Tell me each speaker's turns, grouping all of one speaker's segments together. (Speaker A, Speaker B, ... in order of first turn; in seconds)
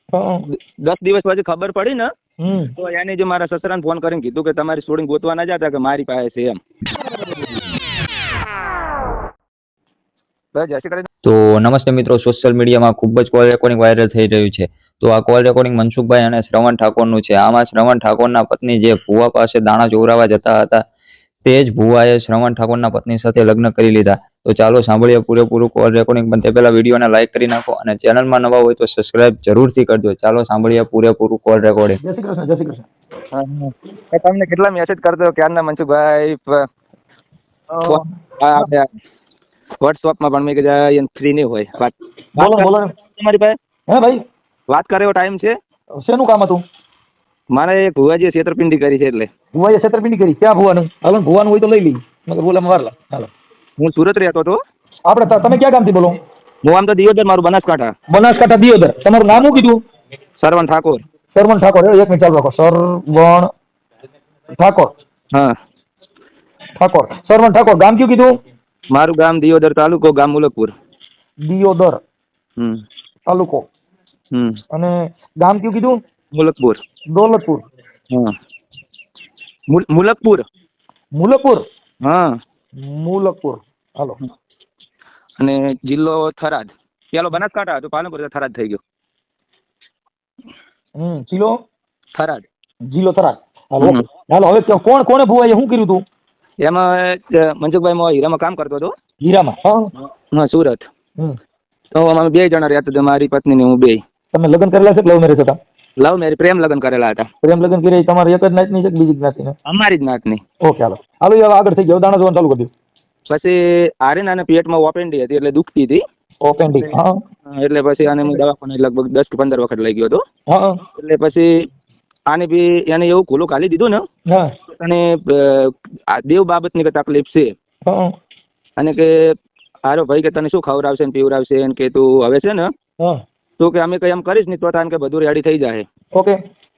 Speaker A: 0.1-0.5, 2.4-2.7, 32.0-32.8, 37.7-38.1, 42.4-42.9, 43.9-44.2, 46.0-46.6, 49.5-53.3, 55.1-56.1, 58.1-59.8, 61.3-63.5, 64.6-64.9, 66.8-68.4, 71.5-72.0, 73.3-73.6, 74.7-76.0, 77.1-77.6, 81.2-81.6, 82.8-84.2, 91.0-91.5, 92.9-96.0, 99.2-99.9, 104.3-105.6, 107.4-109.5, 110.6-112.7, 116.4-117.2, 120.5-120.8, 127.9-128.1
Speaker B: 0.5-2.1, 2.8-6.6, 10.5-11.1, 33.3-36.7, 37.8-38.9, 39.8-43.5, 44.7-45.5, 47.5-49.3, 53.8-54.6, 56.6-57.9, 60.4-61.0, 68.9-70.7, 74.3-74.6, 76.3-76.8, 79.7-80.4, 82.0-82.3, 85.4-88.8, 92.1-92.5, 96.6-98.9, 100.0-100.8, 101.9-104.0, 106.0-107.2, 109.7-110.4, 113.3-116.0, 117.5-120.2, 121.0-121.7, 122.3-124.0, 124.7-127.5, 128.8-129.3, 129.9-132.7, 133.6-135.8
Speaker C: 11.2-20.8, 21.4-32.0